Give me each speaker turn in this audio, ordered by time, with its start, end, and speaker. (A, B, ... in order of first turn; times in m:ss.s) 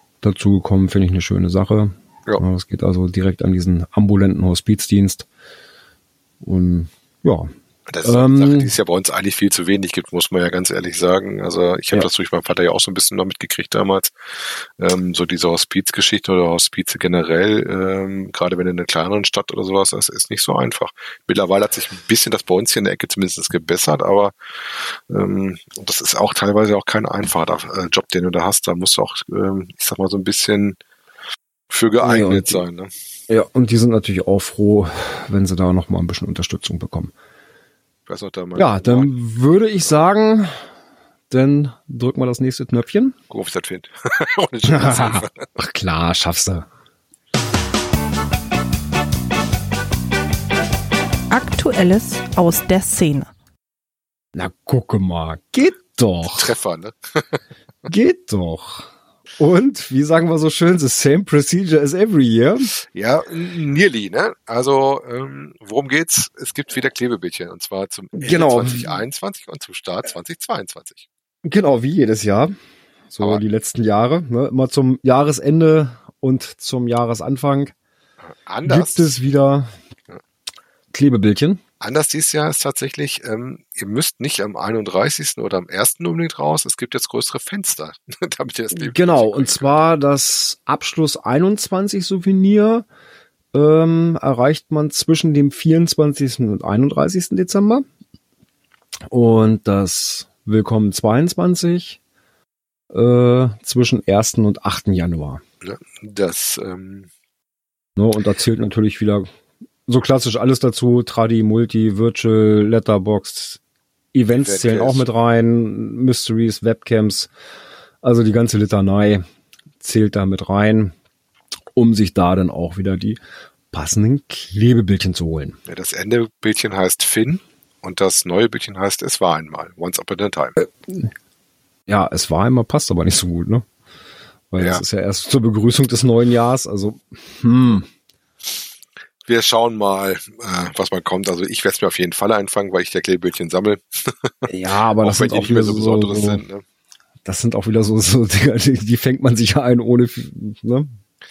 0:00.2-0:05.3 A
0:06.4-0:07.5 A
0:07.9-0:30.8 B
0:08.0-0:08.7 A
0:31.7-0:32.9 B
0:32.0-0:32.6 A
0:33.3-0:37.1 A
0:38.0-0:39.1 B
0:38.5-0:40.6 A
0:41.3-0:43.1 A
0:43.3-0:45.5 B
0:44.7-0:46.7 A
0:51.3-0:53.3 C
0:54.3-0:56.5 A
0:56.3-0:57.4 B
0:57.9-1:02.7 A
1:02.9-1:11.0 B
1:08.2-1:08.9 A
1:11.4-1:12.5 A
1:13.1-1:17.7 A
1:18.2-1:19.2 B
1:18.6-1:19.7 A
1:20.9-1:21.6 A
1:21.8-1:29.8 B
1:28.7-1:32.8 A
1:33.5-1:37.8 A
1:39.1-1:42.0 A
1:42.9-1:45.4 A
1:45.6-1:47.1 B
1:48.0-1:49.3 A
1:49.9-1:53.6 A
1:54.1-1:57.3 A
1:54.3-1:55.1 B
1:58.0-1:59.2 A
1:59.8-2:00.9 A
2:01.8-2:03.2 A
2:03.7-2:05.6 A
2:05.7-2:10.6 B
2:10.6-2:11.1 A
2:11.9-2:13.6 A
2:14.5-2:17.9 A
2:14.6-2:14.8 B
2:19.2-2:26.6 B
2:24.4-2:26.4 A
2:27.2-2:31.0 A